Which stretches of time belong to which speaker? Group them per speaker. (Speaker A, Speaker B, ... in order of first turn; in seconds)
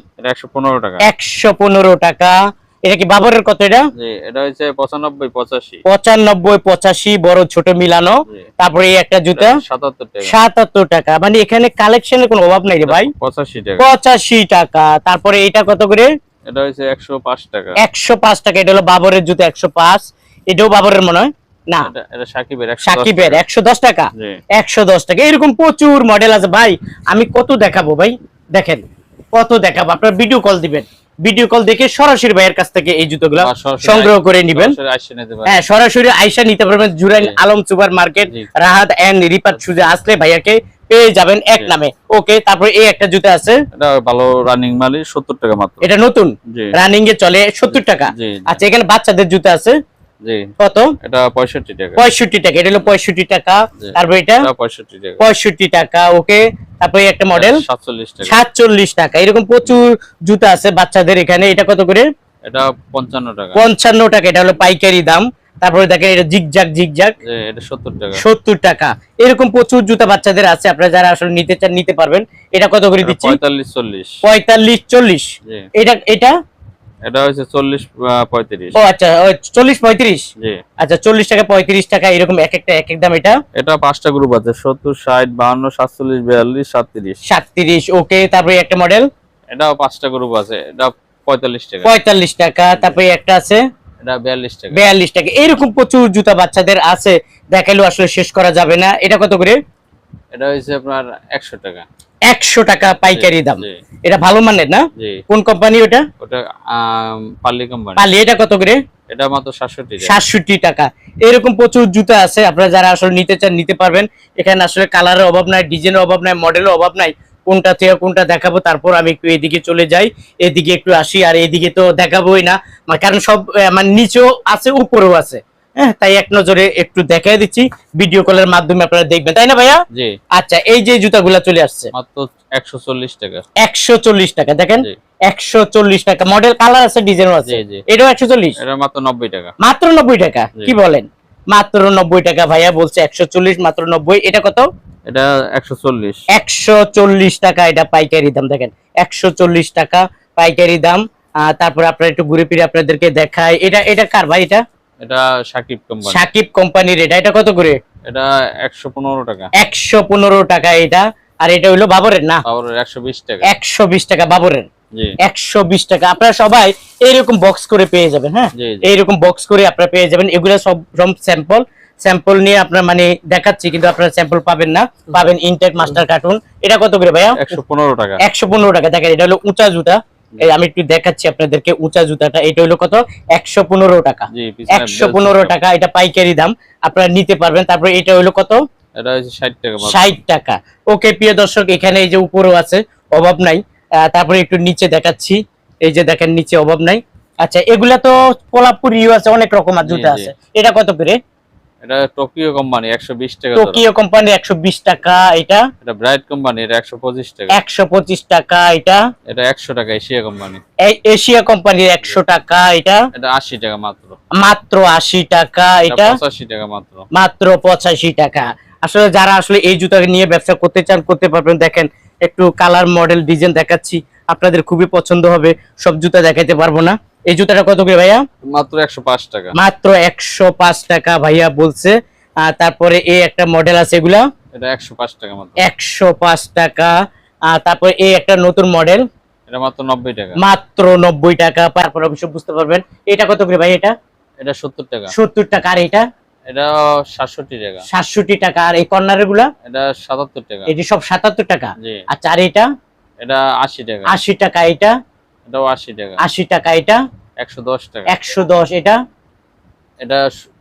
Speaker A: 0.2-1.0, 3.9-5.8, 9.3-10.3, 12.8-13.8, 16.4-17.8, 21.8-23.4, 24.1-24.4, 33.4-35.6, 39.5-39.9, 43.7-45.9, 47.7-48.5, 51.0-52.0, 53.8-55.2, 57.3-58.4, 62.4-63.6, 67.2-68.2, 73.0-74.2, 77.0-78.8, 83.5-87.2, 89.5-91.9, 92.7-93.0, 94.0-94.8, 100.3-101.8, 103.1-103.8, 105.0-105.2, 106.2-108.1, 109.1-110.2, 129.9-130.2, 131.9-133.4, 137.4-137.8, 138.6-139.5, 145.1-146.2, 155.0-156.3, 158.0-159.5, 162.4-163.5, 164.9-165.2, 168.6-168.9, 177.3-178.2, 184.3-185.6, 188.9-190.2, 199.8-200.3, 201.8-203.8, 205.8-207.5, 209.3-210.6, 213.1-214.2, 215.9-217.1, 228.5-229.5, 234.5-235.6, 239.5-240.4, 244.4-245.1, 246.5-247.8, 249.6-250.7, 251.8-252.0, 253.2-254.1, 255.5-256.2, 257.4-258.1, 260.0-260.4
Speaker B: 1.0-3.8, 5.8-9.6, 10.2-13.1, 13.8-16.1, 17.8-21.9, 22.8-34.7, 35.5-43.6, 45.8-49.8, 50.6-50.9, 52.0-54.5, 55.2-57.6, 58.2-62.1, 63.5-67.1, 68.2-73.4, 74.2-76.3, 78.7-80.3, 80.8-83.4, 87.2-89.1, 91.8-93.6, 94.7-99.6, 102.3-106.0, 108.0-108.8, 110.0-129.8, 130.3-131.9, 133.6-138.6, 139.6-144.7, 146.3-154.6, 156.1-157.8, 159.6-162.4, 163.4-164.7, 165.2-177.5, 178.2-188.6, 189.8-201.2, 203.5-205.7, 207.5-209.0, 210.8-213.0, 214.3-216.2, 217.1-228.2, 229.5-231.9, 232.5-234.2, 235.6-236.9, 237.5-239.0, 240.4-243.9, 245.1-246.1, 247.9-249.5, 250.7-252.7, 254.1-254.9, 256.2-257.0, 258.1-259.0